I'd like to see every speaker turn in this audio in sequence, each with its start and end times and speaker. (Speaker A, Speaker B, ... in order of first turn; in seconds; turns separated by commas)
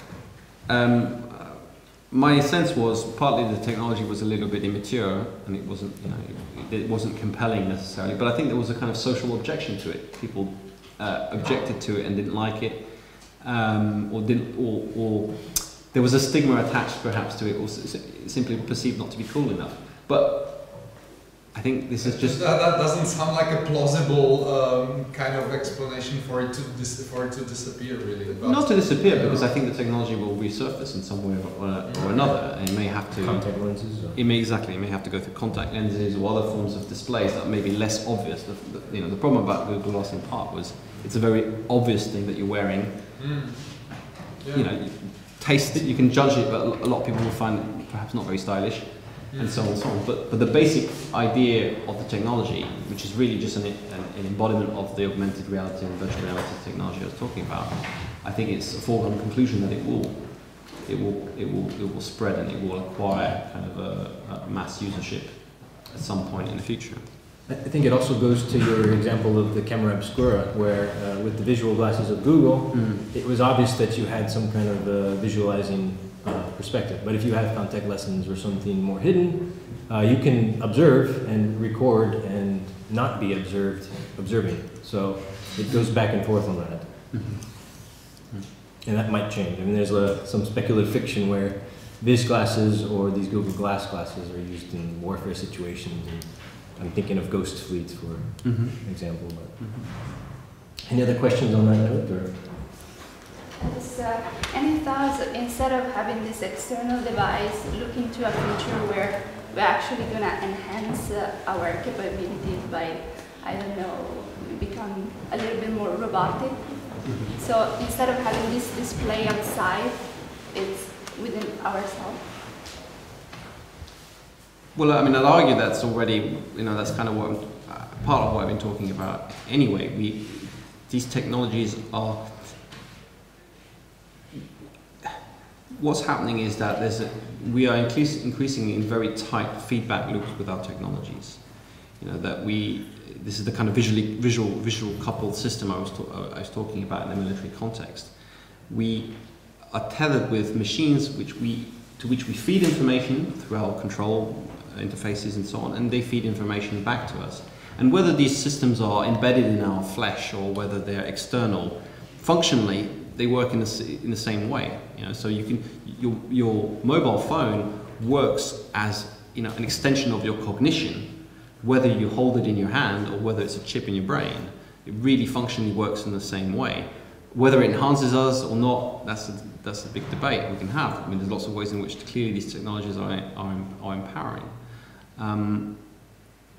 Speaker A: 0.7-22.4, Speaker B: 22.0-29.5, Speaker A: 28.3-43.0, Speaker B: 31.8-32.4, Speaker C: 33.2-34.2, Speaker B: 43.2-45.1, Speaker A: 44.5-67.0, Speaker B: 49.3-49.7, Speaker C: 67.5-87.2, Speaker A: 72.7-73.0, Speaker A: 87.1-88.5, Speaker C: 88.8-102.8, Speaker A: 98.4-99.9, Speaker D: 103.6-122.4, Speaker A: 117.0-117.3, Speaker A: 124.8-132.6, Speaker A: 135.7-186.2